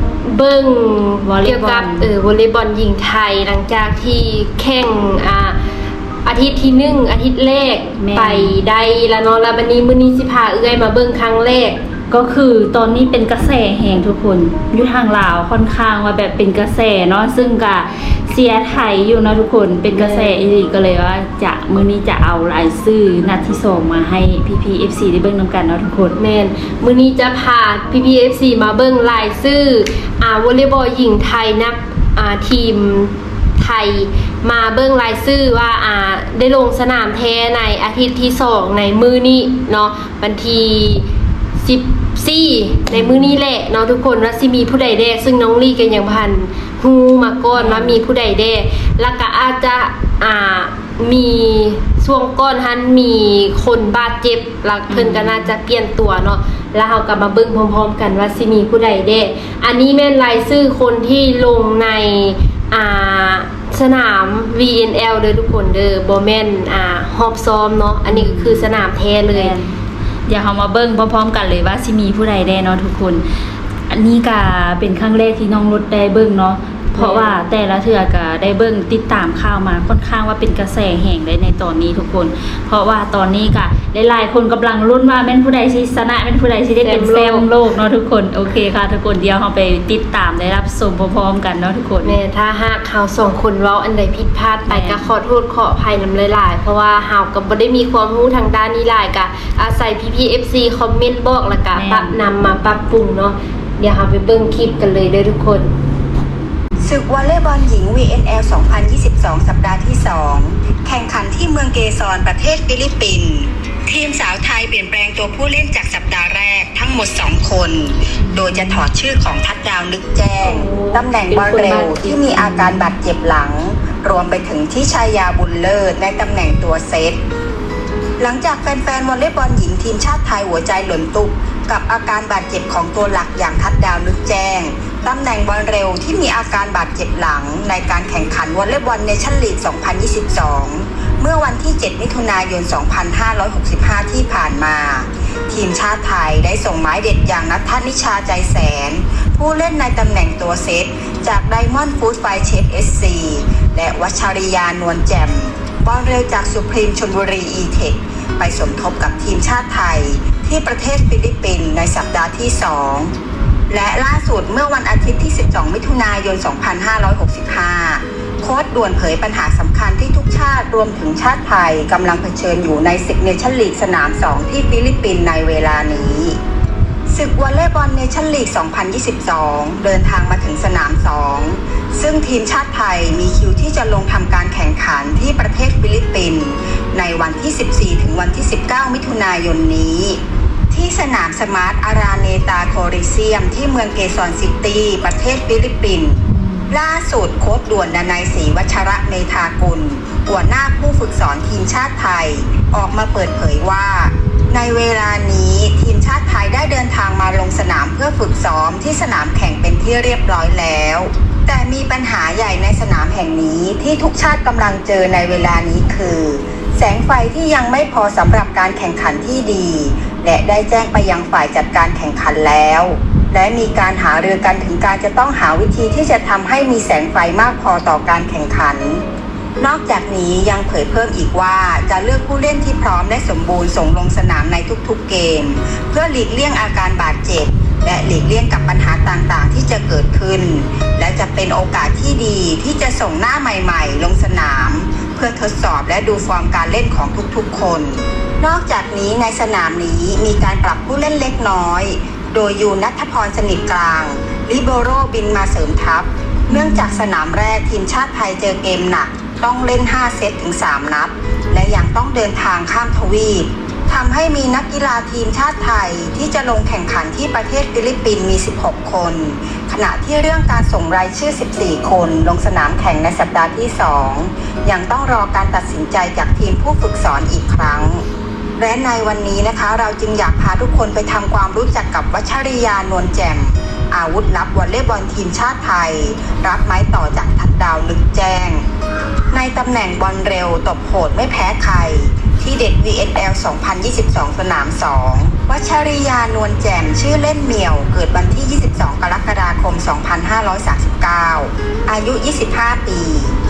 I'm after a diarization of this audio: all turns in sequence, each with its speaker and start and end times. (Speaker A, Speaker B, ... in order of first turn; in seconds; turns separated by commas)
Speaker A: 0.2-5.6, Speaker B: 1.2-2.1, Speaker A: 6.2-11.8, Speaker B: 8.0-8.6, Speaker B: 12.1-26.1, Speaker A: 19.9-20.5, Speaker A: 26.1-41.0, Speaker A: 41.6-69.5, Speaker B: 42.9-43.3, Speaker B: 47.5-48.0, Speaker B: 54.9-55.5, Speaker B: 68.1-68.7, Speaker B: 69.3-69.7, Speaker B: 70.3-73.2, Speaker B: 73.9-92.2, Speaker A: 76.9-77.5, Speaker A: 86.8-87.5, Speaker A: 92.0-105.7, Speaker B: 94.7-95.1, Speaker B: 101.7-102.2, Speaker C: 106.8-127.2, Speaker B: 118.2-118.8, Speaker A: 120.4-122.4, Speaker B: 122.3-122.9, Speaker C: 128.2-163.1, Speaker C: 163.7-176.4, Speaker C: 177.1-190.2, Speaker C: 190.7-229.0, Speaker B: 196.3-196.7, Speaker C: 229.6-278.0, Speaker B: 256.5-257.1, Speaker C: 278.6-288.6, Speaker C: 289.3-303.4